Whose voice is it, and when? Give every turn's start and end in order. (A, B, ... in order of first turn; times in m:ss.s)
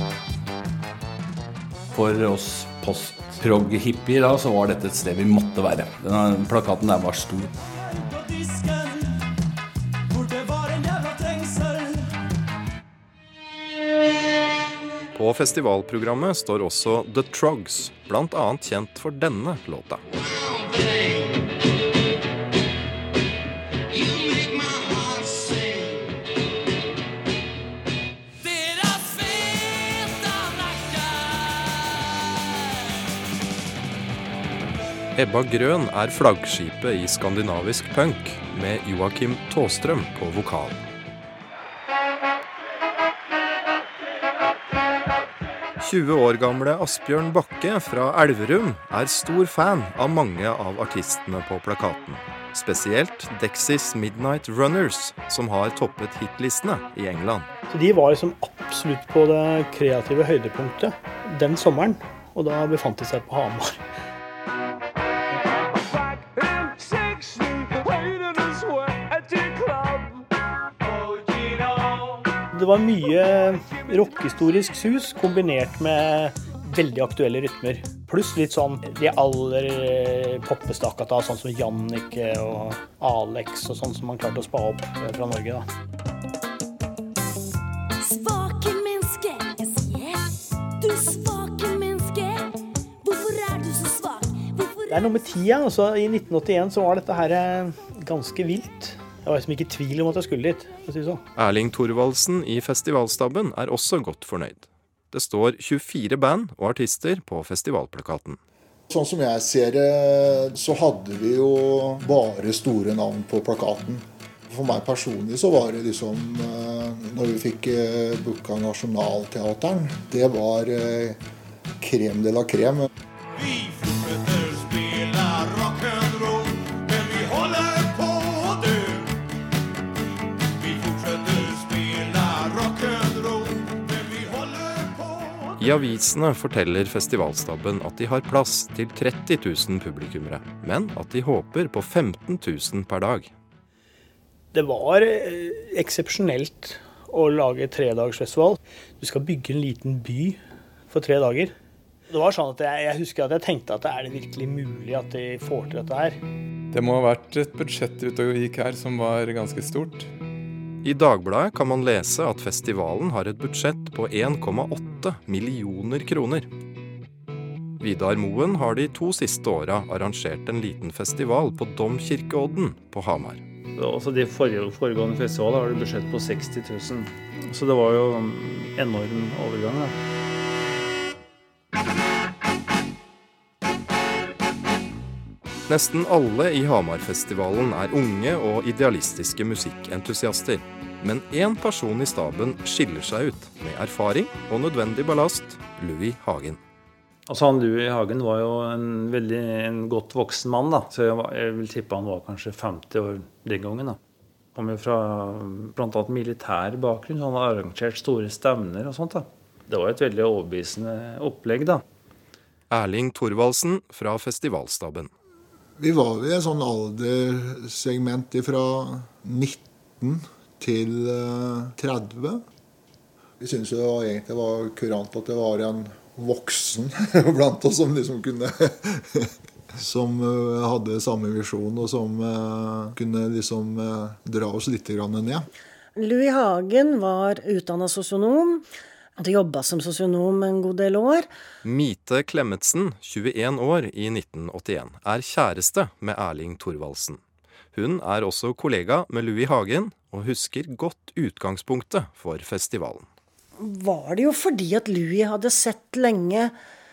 0:01.9-0:07.5 A
0:08.2-0:08.7 A
0:10.1-0:11.8 A
0:15.1-0:20.0 B
0:35.1-0:40.8 B
0:45.8-0:57.5 B
0:57.7-1:03.8 C
1:12.5-1:25.6 C
1:28.0-1:32.5 D
1:33.0-1:35.2 D
1:34.9-1:41.2 C
1:41.4-1:48.4 B
1:48.9-2:01.2 E
2:01.8-2:02.9 E
2:15.6-2:23.3 B
2:24.5-2:31.5 C
2:32.1-2:36.2 C
2:36.7-2:40.1 F
2:40.8-2:46.5 B
2:47.8-2:53.4 B
2:53.8-2:59.9 G
3:05.7-3:16.6 B
3:17.3-3:24.0 G
3:24.5-3:31.8 G
3:32.7-3:35.1 B
3:35.8-3:42.4 E
3:43.4-3:55.4 E
3:56.0-3:58.6 H
3:59.2-4:01.3 H
4:01.6-4:07.2 B
4:07.7-4:13.1 B
4:13.6-4:16.5 H